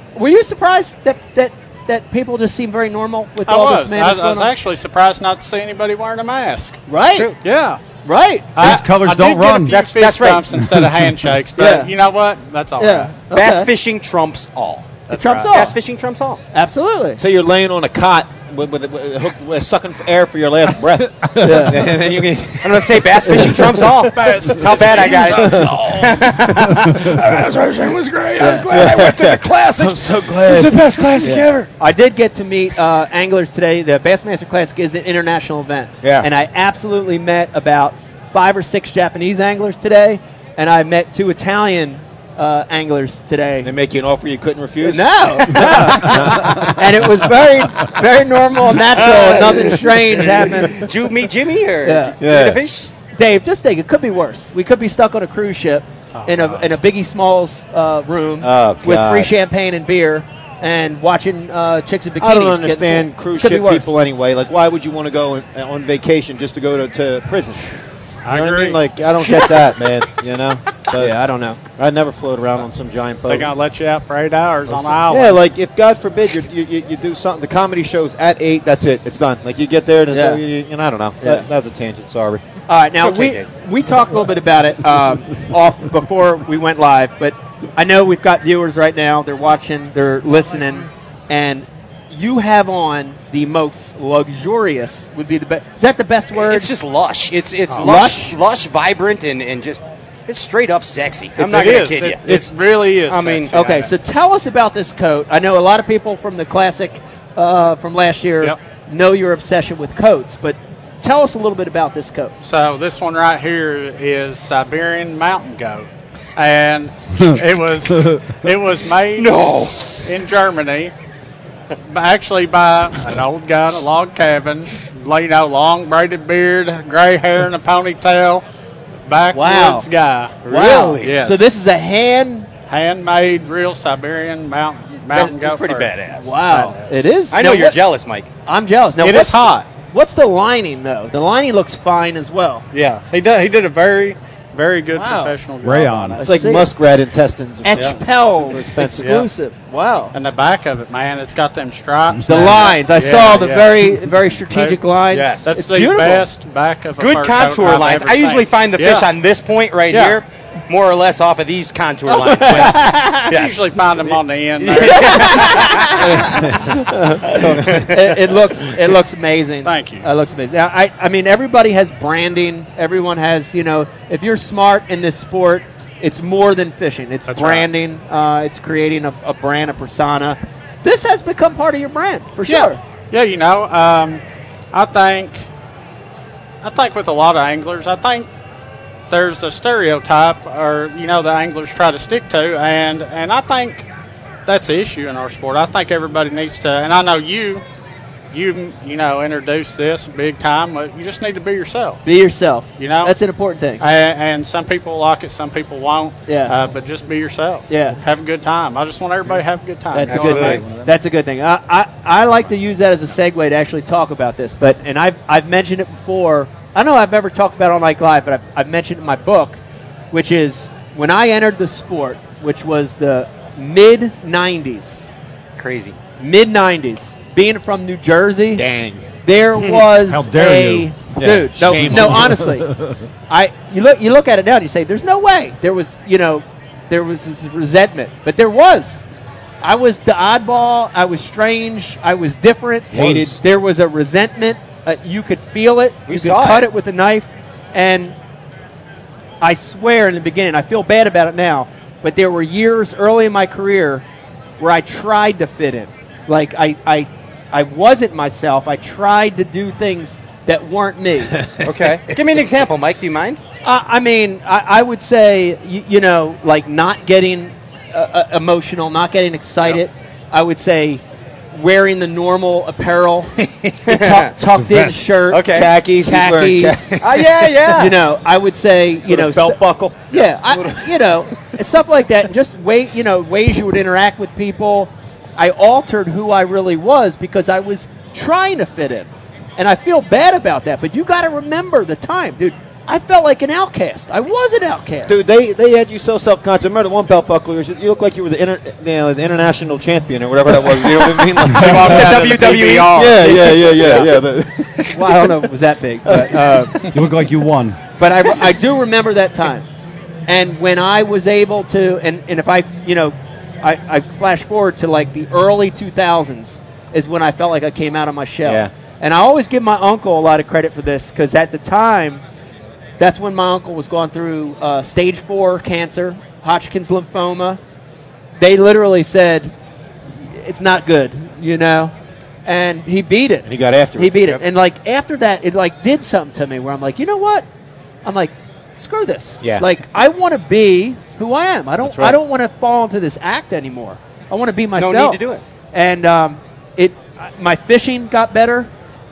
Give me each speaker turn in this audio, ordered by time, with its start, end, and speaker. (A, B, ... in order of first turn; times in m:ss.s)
0:00.1-0:04.5 A
0:03.5-0:06.8 B
0:06.9-0:07.3 A
0:07.4-0:07.8 B
0:08.0-0:08.5 A
0:08.6-0:13.2 B
0:08.6-0:09.7 C
0:09.6-0:10.4 D
0:10.7-0:11.1 C
0:11.6-0:11.9 A
0:12.8-0:13.7 A
0:13.3-0:15.0 D
0:15.1-0:15.5 B
0:15.1-0:15.8 A
0:15.5-0:16.4 D
0:16.5-0:17.2 A
0:17.2-0:23.7 E
0:21.4-0:21.8 A
0:22.6-0:27.2 D
0:24.0-0:26.2 B
0:26.7-0:27.0 C
0:27.2-0:29.8 B
0:28.4-0:28.7 A
0:28.7-0:30.9 E
0:30.5-0:31.6 B
0:31.2-0:43.7 A
0:36.0-0:36.3 E
0:43.6-0:46.7 E
0:44.8-0:50.8 A
0:48.8-0:52.9 D
0:51.8-0:52.2 A
0:52.2-0:52.6 E
0:53.2-1:04.0 A
0:56.1-0:56.7 B
0:58.4-0:59.3 E
1:02.2-1:07.6 E
1:08.2-1:08.8 B
1:08.3-1:11.2 E
1:10.9-1:11.6 A
1:11.8-1:13.5 E
1:13.3-1:15.4 B
1:15.1-1:22.4 E
1:20.1-1:20.4 A
1:21.2-1:21.5 A
1:22.7-1:36.7 A
1:23.0-1:23.4 D
1:36.3-1:42.5 D
1:37.8-1:38.4 A
1:41.4-1:43.9 B
1:41.4-1:41.6 A
1:43.1-1:43.5 D
1:43.5-1:52.3 A
1:52.4-1:59.4 B
1:57.9-1:58.4 C
1:59.2-2:00.0 D
2:00.0-2:00.9 B
2:01.9-2:08.4 B
2:09.1-2:11.4 B
2:09.3-2:09.9 A
2:10.4-2:11.2 D
2:10.4-2:12.5 A
2:12.7-2:15.9 B
2:15.1-2:16.3 D
2:16.2-2:17.8 A
2:16.5-2:17.0 B
2:17.3-2:18.3 D
2:18.4-2:22.6 A
2:19.0-2:19.6 B
2:22.7-2:26.5 B
2:24.9-2:25.3 A
2:25.6-2:26.2 C
2:26.2-2:26.7 A
2:26.2-2:29.2 E
2:27.6-2:30.1 A
2:29.0-2:29.3 B
2:30.1-2:33.9 B
2:32.2-2:36.3 A
2:34.5-2:34.8 B
2:35.1-2:35.5 D
2:35.4-2:39.1 B
2:37.0-2:46.4 D
2:39.9-2:40.2 A
2:42.0-2:43.3 A
2:42.6-2:45.8 B
2:44.7-3:02.8 A
2:46.2-2:46.5 E
2:47.3-2:47.8 E
2:47.4-2:48.3 D
2:49.6-2:50.0 B
2:57.3-2:57.7 B
3:02.5-3:04.2 B
3:04.7-3:05.4 B
3:06.6-3:08.2 B
3:09.1-3:13.8 B
3:14.5-3:17.6 B
3:18.3-3:22.0 B
3:22.0-3:23.8 A
3:22.8-3:23.1 B
3:23.8-3:30.7 B
3:26.3-3:26.5 A
3:27.7-3:28.0 A
3:29.9-3:39.6 A
3:30.1-3:30.6 D
3:40.1-3:45.0 A
3:45.6-3:46.0 D
3:46.2-3:48.6 A
3:48.6-3:49.0 E
3:49.2-3:52.7 A
3:49.6-3:49.8 D
3:50.0-3:51.0 C
3:51.2-3:52.3 E
3:51.6-3:53.0 C
3:53.3-3:59.0 A
3:59.6-4:08.1 A
4:02.9-4:03.4 E
4:06.1-4:06.7 D
4:09.4-4:14.0 A
4:14.6-4:21.4 A
4:21.6-4:23.4 D
4:23.6-4:31.0 A
4:31.5-4:33.3 A
4:33.8-4:37.0 A
4:33.9-4:34.3 D
4:34.6-4:35.2 C
4:35.3-4:35.7 D
4:35.4-4:37.5 E
4:37.0-4:38.0 D
4:37.7-4:39.6 A
4:39.1-4:41.1 E
4:40.1-4:55.2 A
4:55.0-5:05.3 E
5:01.5-5:03.2 B
5:01.5-5:04.0 D
5:03.6-5:04.1 A
5:04.9-5:06.9 A
5:06.1-5:06.6 E
5:06.9-5:07.8 C
5:08.0-5:09.6 A
5:10.3-5:22.2 A
5:18.4-5:18.7 E
5:23.0-5:27.6 A
5:28.4-5:29.5 A
5:30.3-5:31.9 A
5:32.4-5:37.4 A
5:33.4-5:34.4 E
5:38.0-5:45.2 A
5:41.8-5:42.2 E
5:44.8-5:45.4 D
5:45.7-5:48.7 A